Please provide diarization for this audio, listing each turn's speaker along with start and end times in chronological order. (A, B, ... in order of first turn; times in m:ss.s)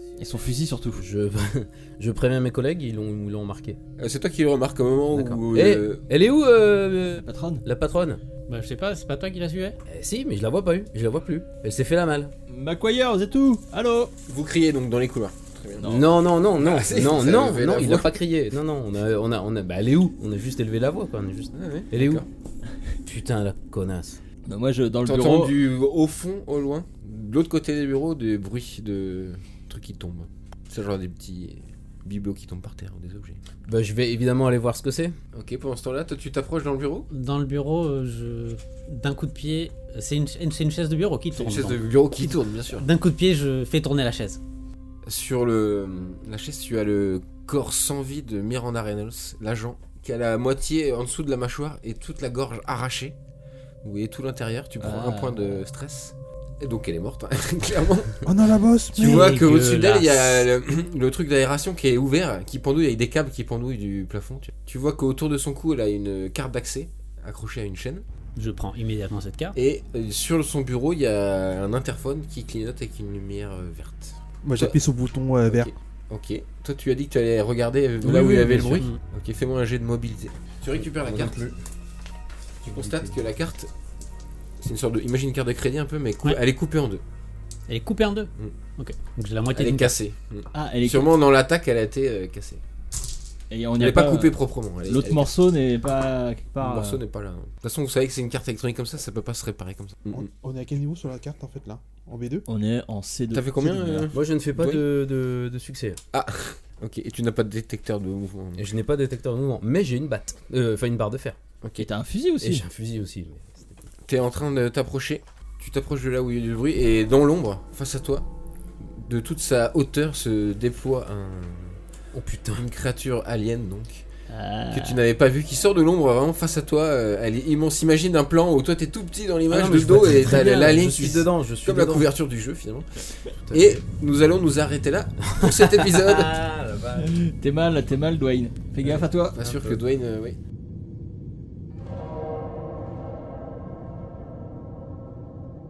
0:00.2-0:01.0 A
0:00.9-0:03.8 B
0:04.0-0:06.0 C
0:05.1-0:08.2 B
0:07.2-0:07.6 A
0:08.5-0:09.8 D
0:09.9-0:12.3 B
0:12.5-0:14.1 A
0:14.3-0:16.0 C
0:15.8-0:22.2 B
0:16.6-0:18.1 C
0:21.5-0:22.3 C
0:23.0-0:24.2 B
0:24.5-0:25.5 A
0:25.0-0:33.4 C
0:33.6-0:35.1 B
0:35.3-0:37.1 C
0:37.1-0:44.4 D
0:41.3-0:42.9 C
0:45.0-0:53.2 C
0:53.8-0:58.2 C
0:54.8-0:55.6 A
0:58.2-0:59.3 E
0:58.9-1:00.4 D
0:59.0-1:08.0 C
1:08.3-1:09.6 D
1:09.5-1:14.8 C
1:14.4-1:15.7 E
1:15.4-1:21.4 C
1:18.0-1:18.8 A
1:20.8-1:21.6 B
1:22.6-1:23.1 B
1:22.7-1:23.7 C
1:24.6-1:27.0 C
1:27.7-1:29.9 D
1:29.5-1:32.6 C
1:30.5-1:31.1 A
1:33.5-1:37.0 A
1:33.8-1:35.3 C
1:36.6-1:40.3 C
1:40.1-1:42.4 E
1:42.5-1:44.1 A
1:43.3-1:44.8 C
1:44.1-1:46.0 B
1:46.1-1:48.7 C
1:48.6-1:51.4 B
1:51.6-1:51.9 C
1:51.8-1:52.6 A
1:52.4-1:53.8 B
1:54.0-1:58.3 C
1:58.8-2:01.8 C
2:02.1-2:02.6 B
2:02.6-2:04.0 C
2:04.3-2:05.0 A
2:04.7-2:16.4 C
2:09.5-2:12.0 B
2:13.5-2:13.8 B
2:15.4-2:17.1 B
2:17.0-2:19.4 A
2:19.3-2:20.4 C
2:19.4-2:19.8 B